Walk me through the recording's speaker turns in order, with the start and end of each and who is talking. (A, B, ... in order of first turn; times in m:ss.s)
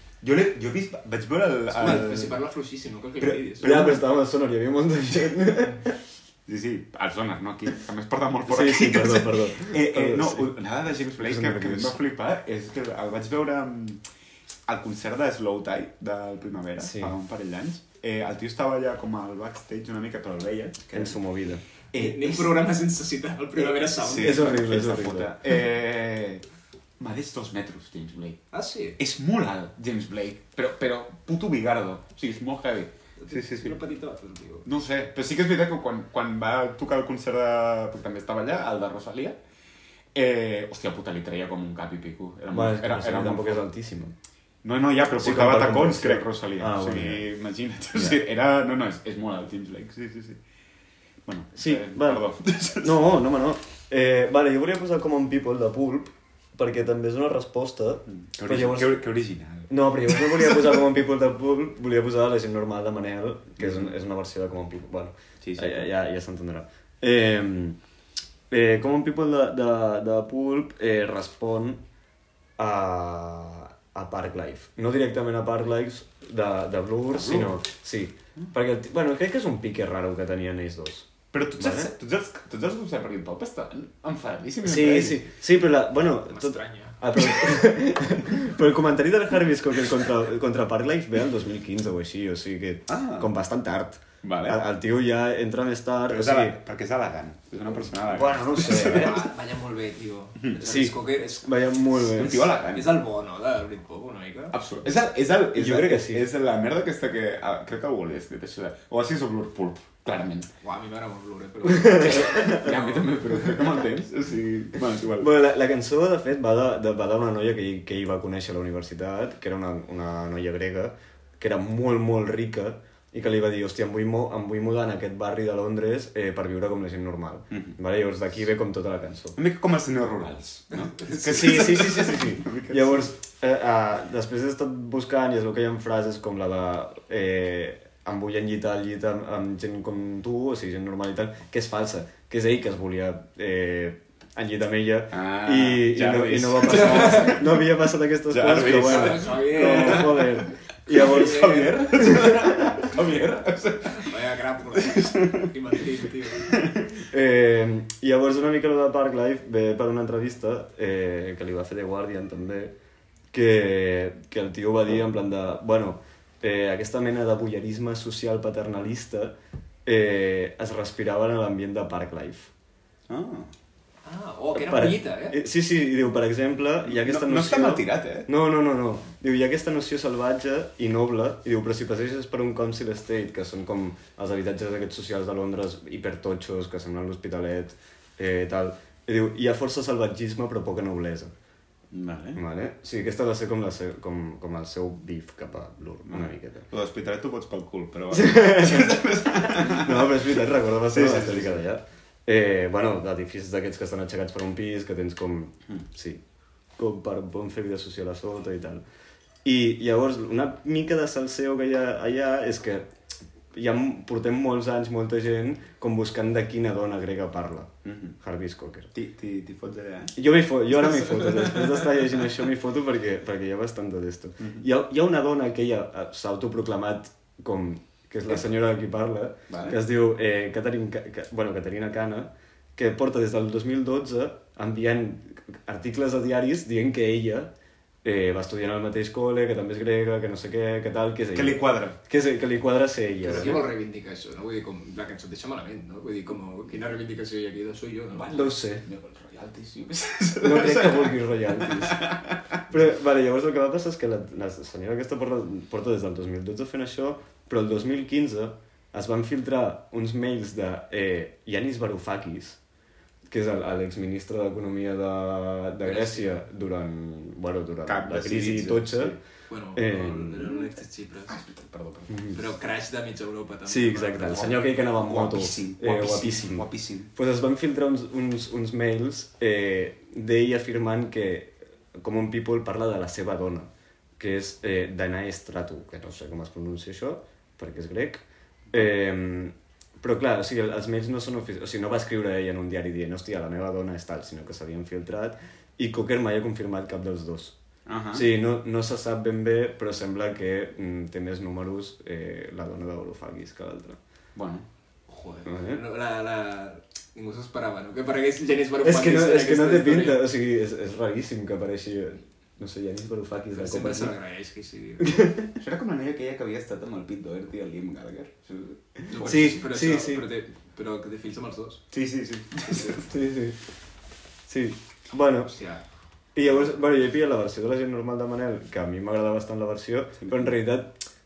0:00.2-0:02.4 A
0:01.7-0:03.7 B
0:03.2-0:04.0 A
0:03.6-0:05.9 C
0:06.5-0:14.0 A
0:08.5-0:10.5 C
0:11.2-0:12.0 C
0:14.7-0:21.2 A
0:16.8-0:17.1 C
0:20.9-0:21.6 C
0:21.9-0:22.6 A
0:22.0-0:24.5 B
0:24.0-0:25.3 C
0:24.0-0:26.4 A
0:27.0-0:28.4 A
0:28.5-0:29.0 B
0:29.0-0:33.8 A
0:33.2-0:34.7 B
0:34.6-0:39.4 A
0:40.1-0:43.6 A
0:42.5-0:44.1 C
0:44.6-0:50.4 A
0:45.2-0:47.3 C
0:47.9-0:48.2 C
0:51.2-0:53.2 A
0:51.6-0:52.2 C
0:52.8-0:59.0 C
0:58.1-1:00.8 A
0:59.7-1:07.8 C
1:03.6-1:03.9 A
1:05.4-1:05.9 A
1:08.5-1:11.8 C
1:12.6-1:21.9 C
1:17.2-1:17.6 A
1:21.3-1:25.2 A
1:24.6-1:36.6 C
1:26.3-1:27.0 B
1:32.9-1:33.3 A
1:34.2-1:34.6 A
1:36.1-1:39.3 A
1:37.7-1:39.2 C
1:38.9-1:41.6 B
1:40.6-1:42.5 C
1:42.1-1:43.0 A
1:42.7-1:44.5 B
1:44.5-1:50.5 A
1:45.6-1:46.3 C
1:50.6-1:53.1 B
1:51.7-1:52.7 C
1:51.9-1:55.3 A
1:55.2-2:09.4 C
2:07.5-2:07.8 A
2:09.3-2:13.1 A
2:10.7-2:11.6 B
2:11.1-2:32.6 C
2:25.1-2:27.5 A
2:26.7-2:27.4 B
2:28.3-2:34.1 A
2:28.6-2:30.1 B
2:31.0-2:31.8 B
2:33.9-2:36.5 B
2:34.8-2:35.5 A
2:36.5-2:36.8 A
2:37.1-2:42.7 C
2:43.3-2:52.5 C
2:53.1-2:53.5 A
2:54.0-2:55.4 B
2:54.5-3:11.3 C
2:56.8-2:58.3 A
3:11.9-3:12.4 A
3:12.3-3:16.6 C
3:16.1-3:21.6 A
3:18.1-3:26.2 C
3:26.8-3:28.8 C
3:29.4-3:32.9 C
3:33.5-3:38.9 C
3:37.8-3:38.2 A
3:38.9-3:40.1 A
3:40.1-3:57.5 C
3:41.3-3:41.6 A
3:44.4-3:44.6 A
3:49.5-3:49.8 A
3:58.0-4:03.6 C
4:01.3-4:02.0 A
4:03.2-4:08.6 B
4:08.3-4:08.8 C
4:08.8-4:12.5 A
4:10.4-4:12.0 C
4:12.7-4:22.6 C
4:23.3-4:29.2 C
4:25.8-4:26.4 B
4:27.8-4:29.2 A
4:29.5-4:31.4 B
4:29.7-4:30.6 C
4:31.3-4:32.2 A
4:32.1-4:32.4 C
4:32.3-4:34.6 B
4:33.7-4:57.6 C
4:34.4-4:37.1 A
4:57.9-4:58.3 A
4:58.1-5:04.0 C
5:04.3-5:04.6 A
5:05.1-5:10.2 B
5:05.4-5:05.8 C
5:08.8-5:14.1 C
5:13.5-5:15.1 B
5:15.0-5:15.5 C
5:15.6-5:19.3 A
5:19.1-5:21.8 B
5:19.2-5:20.3 C
5:21.9-5:23.0 A
5:22.9-5:23.6 C
5:24.5-5:25.5 C
5:25.4-5:25.8 B
5:26.3-5:31.0 C
5:30.2-5:30.5 A